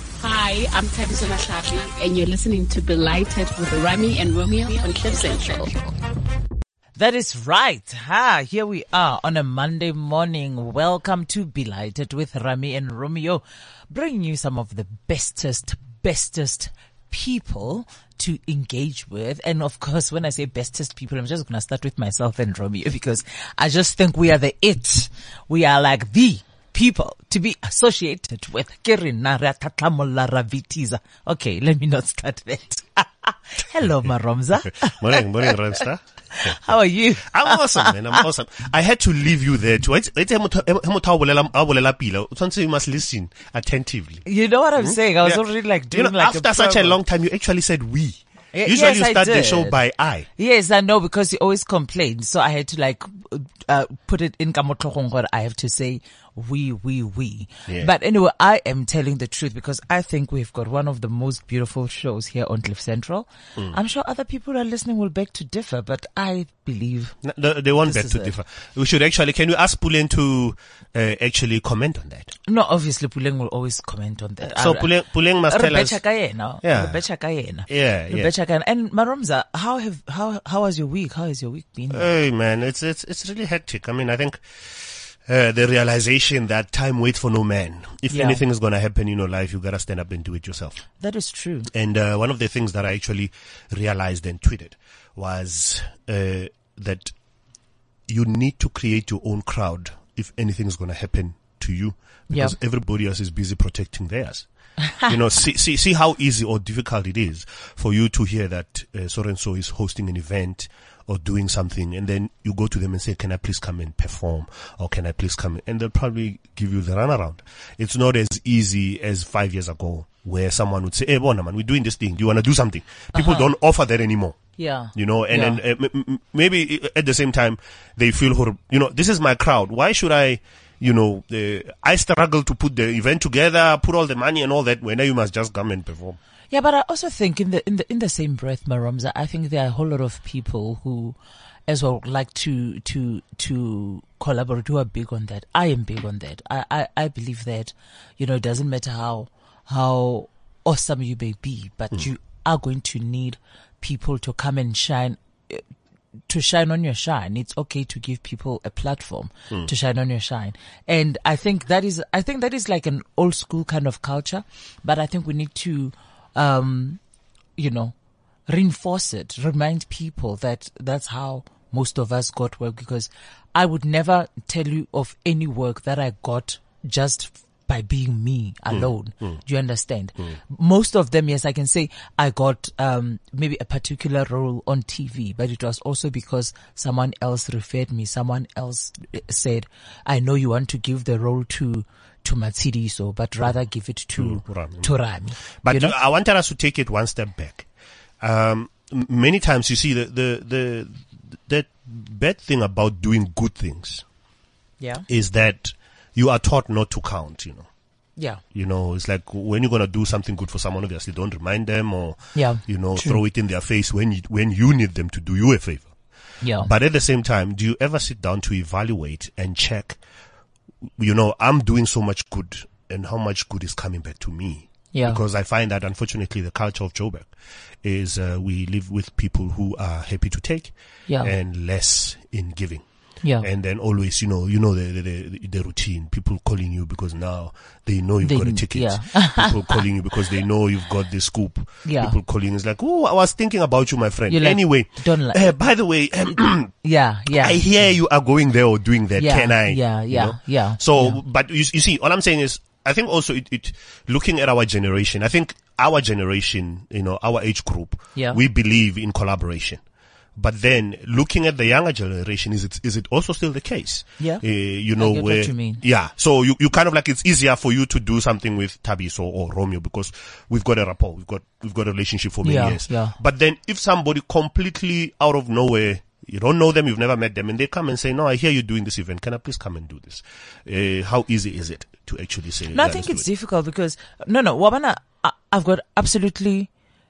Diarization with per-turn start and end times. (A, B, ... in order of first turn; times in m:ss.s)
0:00.2-0:05.8 A
0:07.0-0:35.6 B
0:34.6-0:44.2 C
0:36.3-0:38.2 B
0:44.2-0:47.0 B
0:44.8-0:50.3 C
0:48.5-0:49.8 B
0:50.4-1:07.2 B
0:57.7-0:57.9 C
1:07.2-1:12.3 C
1:07.8-1:08.3 B
1:12.5-1:14.9 B
1:14.5-1:16.0 C
1:15.5-1:22.1 B
1:16.6-1:17.0 C
1:17.7-1:18.3 C
1:21.9-1:30.8 C
1:28.1-1:28.4 B
1:31.0-1:31.7 B
1:31.7-1:37.1 C
1:38.1-1:44.4 C
1:45.0-2:04.4 C
2:03.1-2:03.5 B
2:04.6-2:05.6 B
2:04.9-2:16.2 C
2:16.5-2:35.6 B
2:36.3-2:47.0 B
2:47.6-2:47.9 B
2:48.5-3:16.0 B
2:58.7-2:59.4 C
3:14.2-3:14.9 C
3:15.6-3:17.7 C
3:18.2-3:24.0 C
3:25.1-3:27.7 C
3:28.5-3:35.9 C
3:32.3-3:33.2 B
3:36.4-3:36.7 B
3:36.6-3:40.0 C
3:41.0-3:47.3 C
3:44.9-3:45.2 B
3:47.8-3:52.8 C
3:51.1-3:51.3 B
3:53.4-4:06.7 C
3:58.2-3:59.8 B
4:01.8-4:02.2 B
4:04.3-4:05.6 B
4:06.8-4:07.6 B
4:07.3-4:19.8 C
4:09.2-4:11.2 B
4:20.4-4:43.3 C
4:25.0-4:25.8 B
4:32.4-4:33.1 B
4:42.7-4:46.7 B